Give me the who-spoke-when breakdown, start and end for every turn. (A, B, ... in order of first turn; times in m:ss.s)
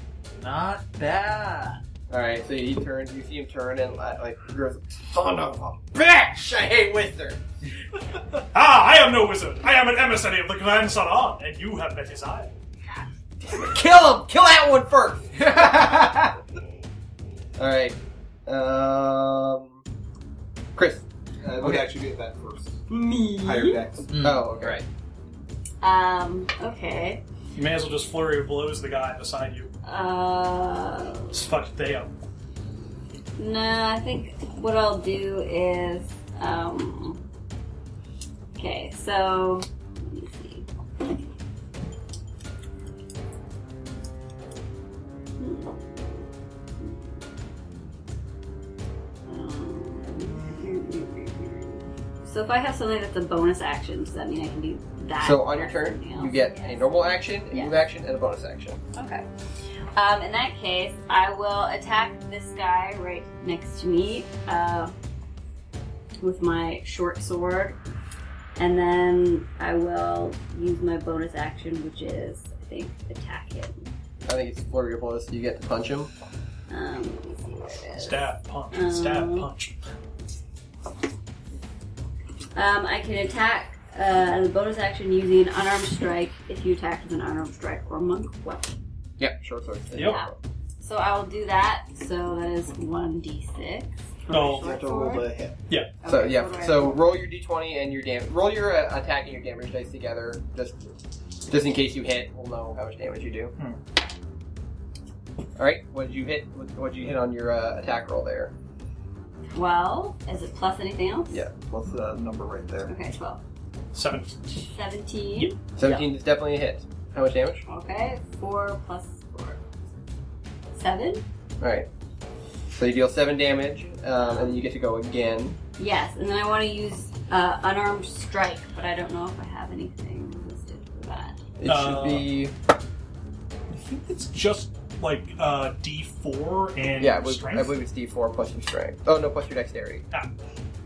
0:00.4-0:01.8 A
0:02.1-0:07.4 B
0:08.4-0:12.5 C
0:13.4-0:16.2 B
0:15.5-0:16.1 A
0:17.6-0:19.8 B
0:20.8-0:21.0 B
0:21.4-0:24.1 D
0:21.6-0:21.9 B
0:22.9-0:23.8 E
0:24.1-0:24.4 A
0:24.2-0:24.8 B
0:25.8-0:27.2 E
0:27.6-0:29.7 C
0:29.8-0:31.4 E
0:31.3-0:32.1 C
0:33.4-0:37.2 E
0:38.6-0:40.7 E
0:45.4-0:46.2 E
0:49.3-0:57.7 E
0:55.2-0:58.8 B
0:59.0-0:59.2 E
0:59.9-1:04.9 E
1:06.2-1:07.8 E
1:08.6-1:13.9 E
1:14.3-1:16.1 B
1:16.7-1:19.5 E
1:18.0-1:19.7 C
1:22.5-1:28.7 E
1:29.2-1:30.4 B
1:29.9-1:30.2 C
1:30.0-1:35.3 E
1:34.3-1:34.7 C
1:34.6-1:35.6 D
1:36.0-1:37.0 E
1:36.0-1:40.9 B
1:41.5-1:43.5 B
1:45.6-1:48.5 B
1:49.5-1:51.5 E
1:51.3-1:51.6 B
1:51.7-1:52.9 D
1:52.9-1:53.4 E
1:53.9-1:54.5 C
1:54.7-1:56.1 E
1:55.8-1:57.6 B
1:57.7-1:59.6 E
2:00.7-2:01.2 E
2:01.6-2:01.9 B
2:02.8-2:05.6 B
2:04.2-2:04.6 E
2:05.8-2:11.4 E
2:11.6-2:12.5 B
2:11.6-2:12.3 C
2:13.7-2:17.7 C
2:17.0-2:20.0 B